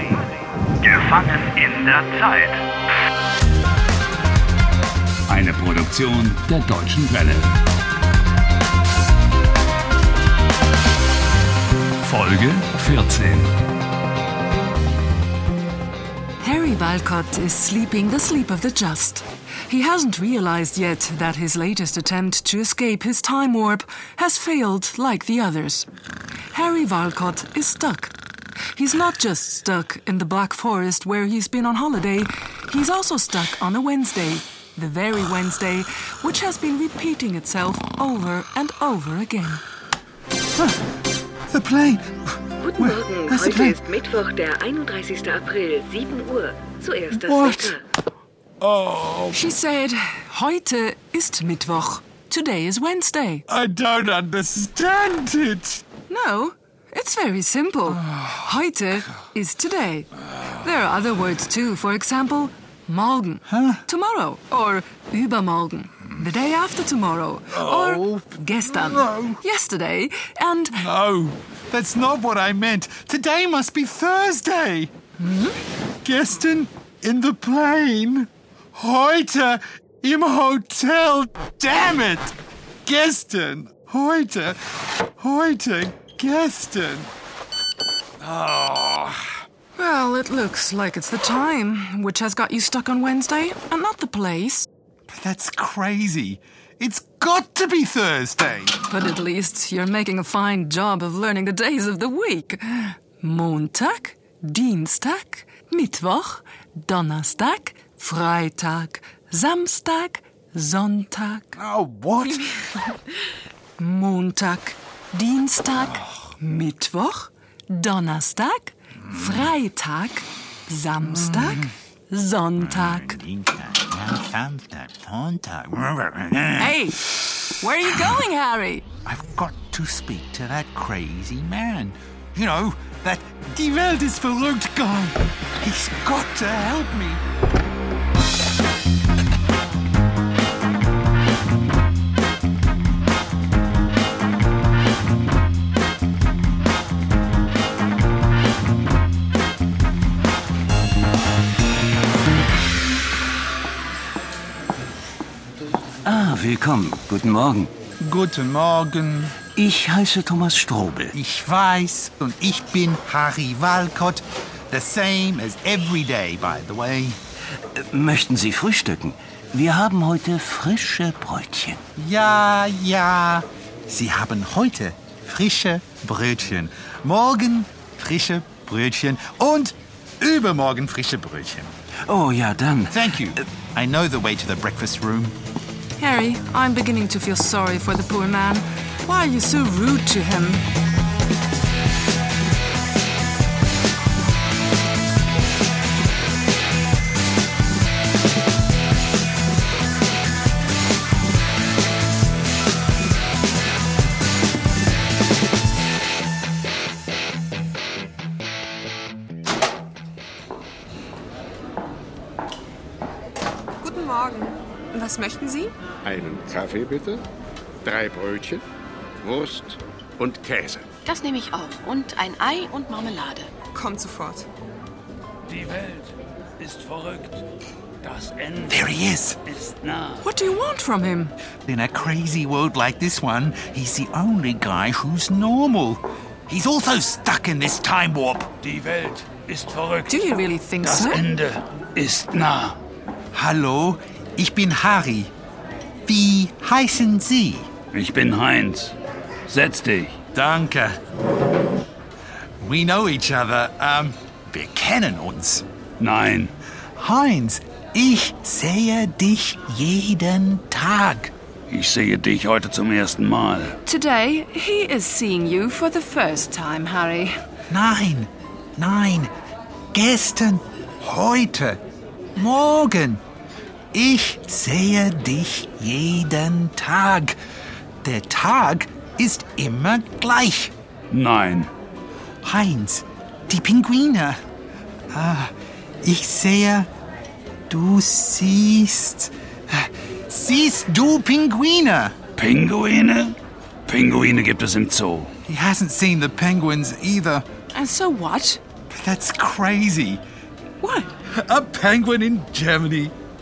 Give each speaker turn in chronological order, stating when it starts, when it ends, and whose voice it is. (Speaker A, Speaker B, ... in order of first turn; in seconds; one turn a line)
Speaker A: 0.8-2.6
Speaker A: 5.3-7.5
Speaker A: 12.0-13.5
Speaker B: 16.4-25.9
Speaker B: 26.5-28.1
Speaker B: 28.7-39.6
Speaker C: 41.5-43.8
Speaker D: 42.6-47.8
Speaker C: 47.1-47.8
Speaker C: 48.6-49.4
Speaker B: 49.3-53.4
Speaker C: 53.5-55.8
Speaker B: 56.1-70.8
Speaker C: 57.9-58.5
Speaker C: 63.5-63.8
Speaker C: 67.5-69.4
Speaker C: 70.7-74.9
Speaker B: 75.2-75.5
Speaker C: 76.0-82.3
Speaker C: 82.8-84.6
Speaker C: 85.2-87.1
Speaker C: 88.2-89.3
Speaker B: 89.7-94.7
Speaker C: 95.1-98.8
Speaker B: 98.9-111.6
Speaker C: 111.5-112.7
Speaker B: 113.8-123.2
Speaker C: 122.6-126.8
Speaker B: 126.6-128.8
Speaker C: 129.1-137.2
Speaker E: 156.0-157.7
Speaker C: 158.0-159.4
Speaker E: 159.5-161.1
Speaker C: 161.1-167.2
Speaker E: 167.7-171.8
Speaker C: 171.9-181.7
Speaker E: 182.1-182.9
Speaker C: 182.9-185.3
Speaker B: 186.0-190.6
Speaker F: 213.8-215.7
Speaker G: 216.0-217.2
Speaker G: 217.8-218.6
Speaker G: 219.2-220.9
Speaker H: 221.0-223.7
Speaker F: 223.7-224.5
Speaker A: 225.5-227.4
Speaker A: 228.0-230.2
Speaker C: 228.7-229.4
Speaker B: 230.2-231.3
Speaker C: 231.7-238.5
Speaker A: 238.6-240.2
Speaker B: 240.1-241.3
Speaker A: 240.8-242.8
Speaker C: 243.3-245.3
Speaker C: 246.1-247.7
Speaker A: 247.9-248.9
Speaker A: 249.5-250.2
Speaker C: 250.3-251.0
Speaker C: 252.6-255.6
Speaker A: 256.0-256.5
Speaker C: 257.0-261.3
Speaker A: 261.7-263.8
Speaker B: 263.9-267.4
Speaker C: 267.7-269.3
Speaker C: 269.9-271.8
Speaker C: 272.4-273.2
Speaker C: 273.9-277.4
Speaker C: 278.0-280.7
Speaker A: 281.1-281.7
Speaker C: 282.4-284.4
Speaker C: 285.1-286.9
Speaker C: 287.7-292.1
Speaker A: 292.4-295.3
Speaker C: 295.4-297.4
Speaker B: 297.7-298.6
Speaker C: 298.9-300.2
Speaker B: 300.8-301.1
Speaker C: 301.3-303.1